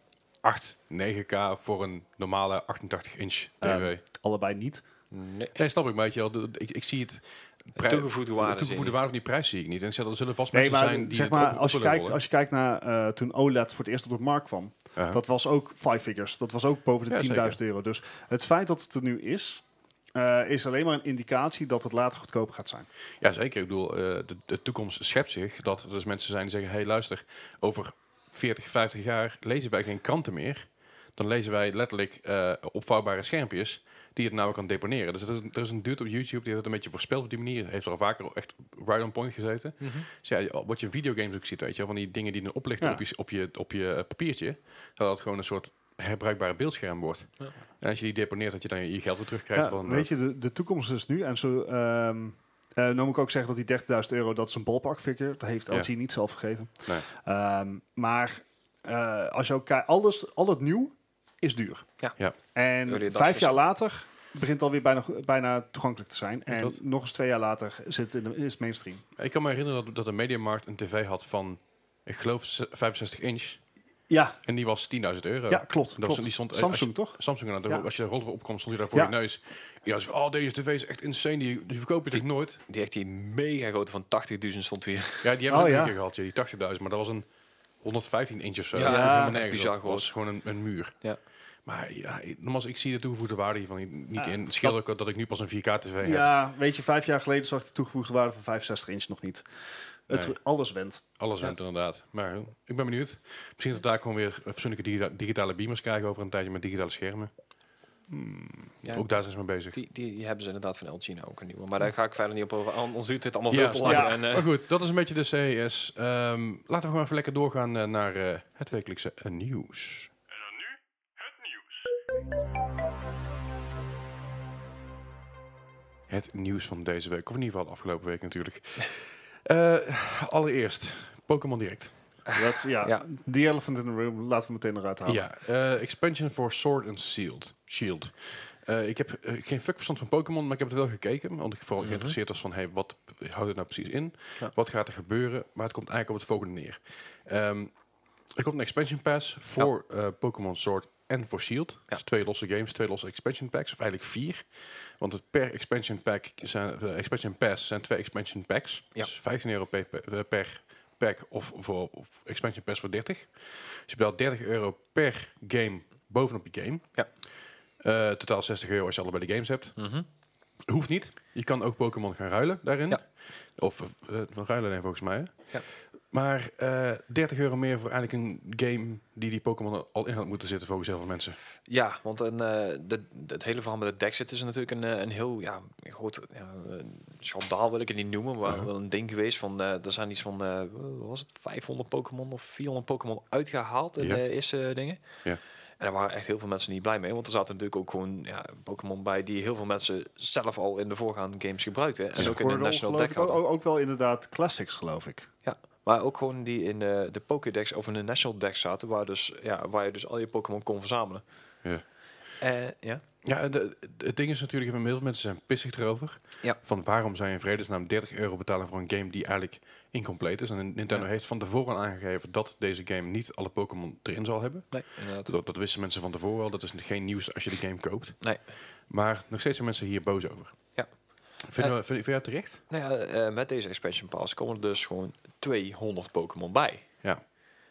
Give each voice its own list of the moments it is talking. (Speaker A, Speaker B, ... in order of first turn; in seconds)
Speaker A: 0.4-4.0, 5.5-12.2, 17.1-17.6, 23.2-50.1, 66.5-66.8, 69.2-73.6, 74.5-82.6, 85.2-87.2, 87.8-91.0, 91.6-96.3, 100.1-100.3, 101.2-107.3, 108.9-109.8, 113.5-120.1, 126.1-131.9, 135.0-147.7, 148.3-154.5, 155.0-166.9, 167.8-169.8, 170.7-173.0, 173.6-175.5, 176.1-181.4, 213.2-228.2, 228.9-230.6, 231.5-232.6
Speaker B: 3.6-4.8, 10.5-22.9, 49.5-61.9, 62.5-69.0, 74.1-74.4, 75.5-77.8, 85.5-85.9, 88.8-89.4, 94.2-94.8, 96.0-99.4, 100.1-101.0, 108.1-108.7, 113.8-114.2, 132.3-135.2, 202.2-205.3
Speaker C: 5.1-5.5, 7.8-9.0, 39.8-40.0, 62.9-63.6, 82.7-85.3, 88.7-90.1, 109.7-114.5, 132.3-133.0, 141.8-142.1, 169.8-170.1, 181.7-195.2, 195.8-203.4, 205.4-211.2, 212.4-213.0, 224.7-225.3, 232.7-236.8